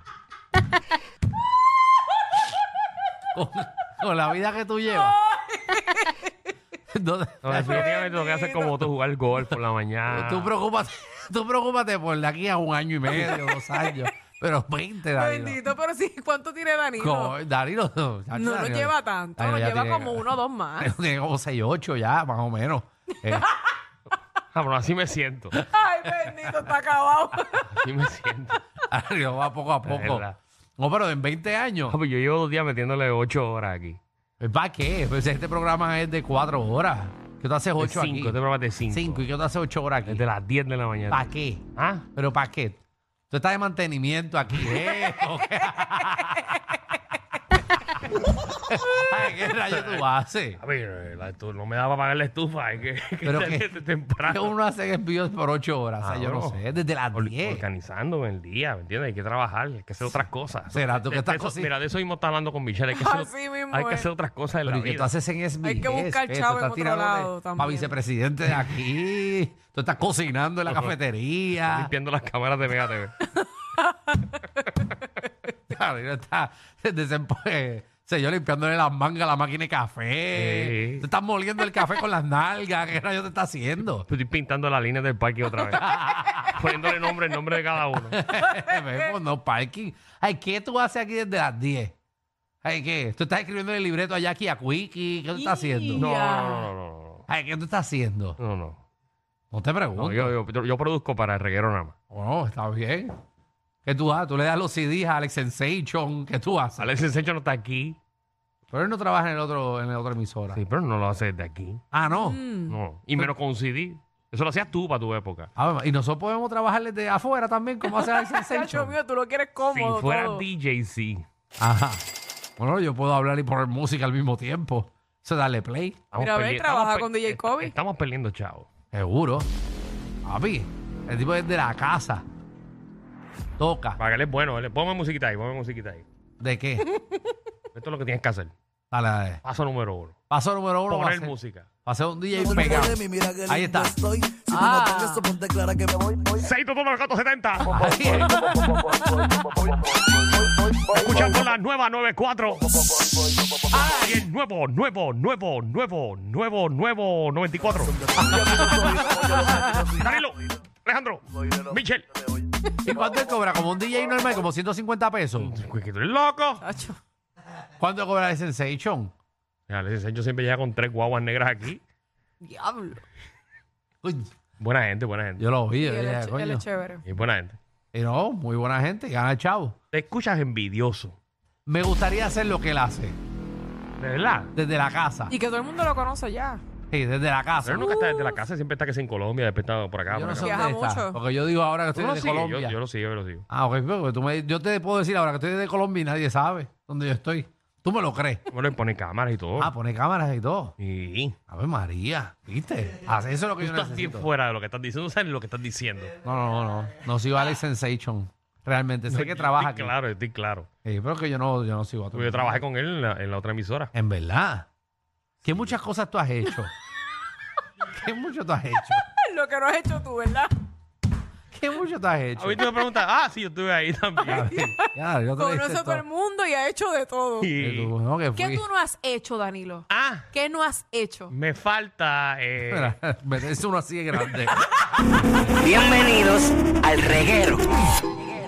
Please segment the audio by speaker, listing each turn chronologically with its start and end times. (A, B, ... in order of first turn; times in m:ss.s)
0:03.3-0:05.2 A
0:05.1-0:06.3 B
0:06.9-0:07.9 A
0:07.4-0:10.5 C
0:07.6-0:08.8 B
0:10.1-0:15.6 A
0:15.2-0:17.4 B
0:17.0-0:23.5 A
0:18.3-0:20.9 B
0:24.5-0:25.6 C
0:25.6-0:27.7 B
0:27.6-0:28.6 C
0:28.9-0:30.3 A
0:29.8-0:30.4 C
0:30.8-0:32.0 A
0:31.9-0:34.0 C
0:34.4-0:38.4 A
0:37.8-0:39.2 C
0:38.9-0:40.2 A
0:40.1-0:42.1 C
0:41.1-0:46.8 A
0:48.5-0:50.6 A
0:49.8-0:50.1 C
0:50.6-0:54.5 C
0:53.2-0:53.7 A
0:54.2-0:57.6 A
0:56.0-0:56.6 C
0:57.1-1:05.1 C
1:00.7-1:01.7 A
1:02.9-1:04.1 B
1:04.6-1:11.9 A
1:05.6-1:08.0 B
1:10.7-1:11.0 C
1:11.6-1:13.2 C
1:13.3-1:14.8 B
1:15.7-1:24.1 A
1:20.3-1:21.0 C
1:24.1-1:28.2 C
1:25.6-1:26.6 A
1:26.1-1:26.5 B
1:28.1-1:31.9 A
1:28.3-1:29.1 B
1:32.6-1:36.1 A
1:35.4-1:36.7 B
1:36.0-1:37.2 C
1:37.3-1:38.4 A
1:38.4-1:38.8 C
1:39.5-1:40.3 A
1:40.0-1:41.9 C
1:42.1-1:43.1 A
1:43.8-1:46.8 A
1:46.8-1:48.0 C
1:48.7-1:50.6 A
1:50.5-1:51.8 C
1:51.9-1:52.4 A
1:52.1-1:52.8 B
1:52.7-1:55.5 C
1:55.6-1:59.0 A
1:57.9-2:00.4 B
1:59.7-2:01.2 C
2:01.6-2:02.0 A
2:02.6-2:06.0 A
2:06.1-2:08.7 C
2:06.2-2:07.7 B
2:08.9-2:09.5 A
2:10.2-2:12.2 A
2:13.6-2:14.0 A
2:14.0-2:16.0 C
2:16.4-2:16.9 A
2:17.7-2:18.5 C
2:18.9-2:19.4 A
2:19.4-2:20.2 C
2:20.3-2:21.3 A
2:20.9-2:21.7 C
2:21.8-2:24.0 A
2:22.4-2:26.4 D
2:24.5-2:25.3 B
2:26.3-2:28.5 C
2:27.7-2:28.5 A
2:28.8-2:29.8 D
2:30.4-2:30.8 D
2:30.9-2:33.0 C
2:33.2-2:33.6 D
2:33.7-2:34.2 A
2:34.0-2:38.7 C
2:38.1-2:39.9 D
2:38.4-2:40.0 B
2:39.4-2:42.1 C
2:42.8-2:45.6 A
2:45.4-2:46.6 C
2:46.6-2:47.0 B
2:47.8-2:49.1 A
2:49.7-2:51.8 C
2:52.4-2:53.0 B
2:54.0-2:54.3 A
2:54.6-2:55.5 C
2:55.4-2:56.6 A
2:55.8-2:57.0 B
2:57.0-2:57.6 C
2:57.9-2:59.8 A
2:59.9-3:01.2 C
3:01.7-3:03.2 A
3:04.0-3:04.5 C
3:04.6-3:05.3 A
3:05.3-3:06.6 B
3:06.9-3:08.1 A
3:07.6-3:10.6 C
3:07.8-3:08.4 B
3:10.1-3:12.8 A
3:10.4-3:11.2 B
3:11.9-3:13.4 C
3:13.5-3:18.4 A
3:18.5-3:19.7 C
3:19.6-3:20.8 A
3:20.8-3:21.4 C
3:21.5-3:24.3 A
3:23.6-3:26.2 C
3:26.2-3:29.9 A
3:29.1-3:30.7 C
3:30.8-3:32.6 A
3:32.1-3:33.9 C
3:33.9-3:34.7 A
3:35.4-3:36.7 A
3:37.8-3:39.0 A
3:38.9-3:40.5 B
3:41.5-3:42.7 A
3:42.4-3:44.5 C
3:44.2-3:47.5 B
3:44.3-3:46.0 A
3:47.4-3:47.9 C
3:47.6-3:48.6 A
3:48.4-3:51.3 B
3:49.9-3:50.3 C
3:51.3-3:53.0 C
3:52.7-3:54.7 A
3:55.6-3:57.8 E